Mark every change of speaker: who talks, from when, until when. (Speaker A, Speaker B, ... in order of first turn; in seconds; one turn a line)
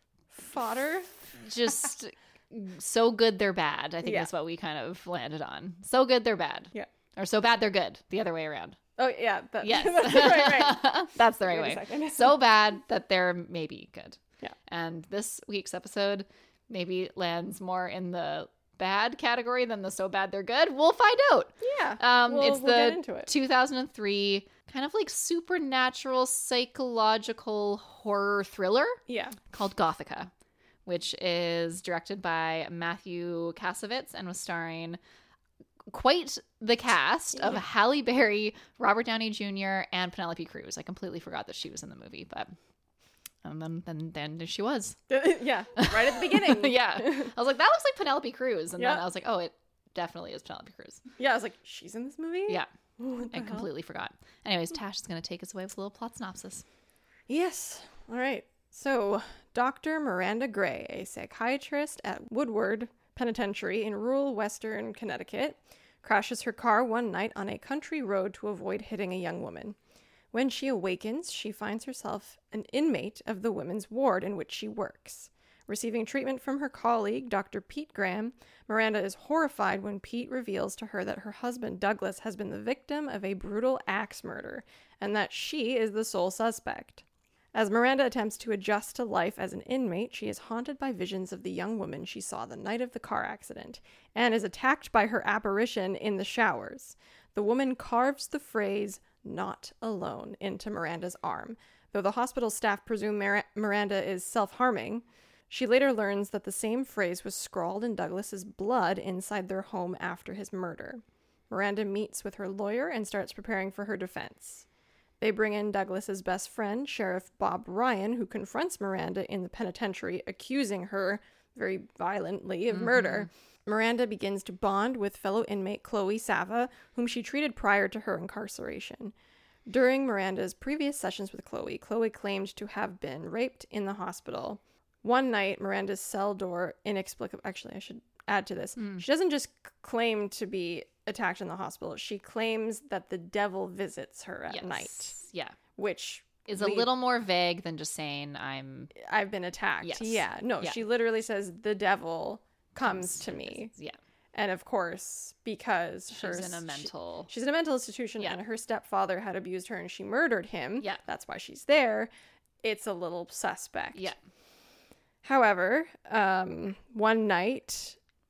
Speaker A: 0.3-1.1
Speaker B: 1.4-8.8
Speaker A: 4.0-4.3
Speaker A: 9.0-12.4
Speaker B: 9.6-30.3
Speaker A: 21.6-23.3
Speaker A: 29.1-29.4
Speaker B: 30.9-35.0
Speaker B: 35.9-42.5
Speaker B: 43.4-45.0
Speaker A: 45.1-47.3
Speaker B: 45.7-51.0
Speaker A: 48.8-49.0
Speaker A: 51.2-53.7
Speaker B: 53.3-56.6
Speaker A: 57.3-69.8
Speaker A: 70.3-114.7
Speaker A: 115.2-129.1
Speaker B: 122.7-123.2
Speaker A: 129.7-145.2
Speaker B: 138.8-139.0
Speaker B: 144.5-145.6
Speaker A: 145.8-146.9
Speaker B: 146.4-148.9
Speaker A: 148.9-153.7
Speaker B: 149.8-150.8
Speaker B: 152.8-154.0
Speaker A: 154.3-162.1
Speaker B: 156.1-157.3
Speaker A: 162.6-164.1
Speaker A: 165.2-168.0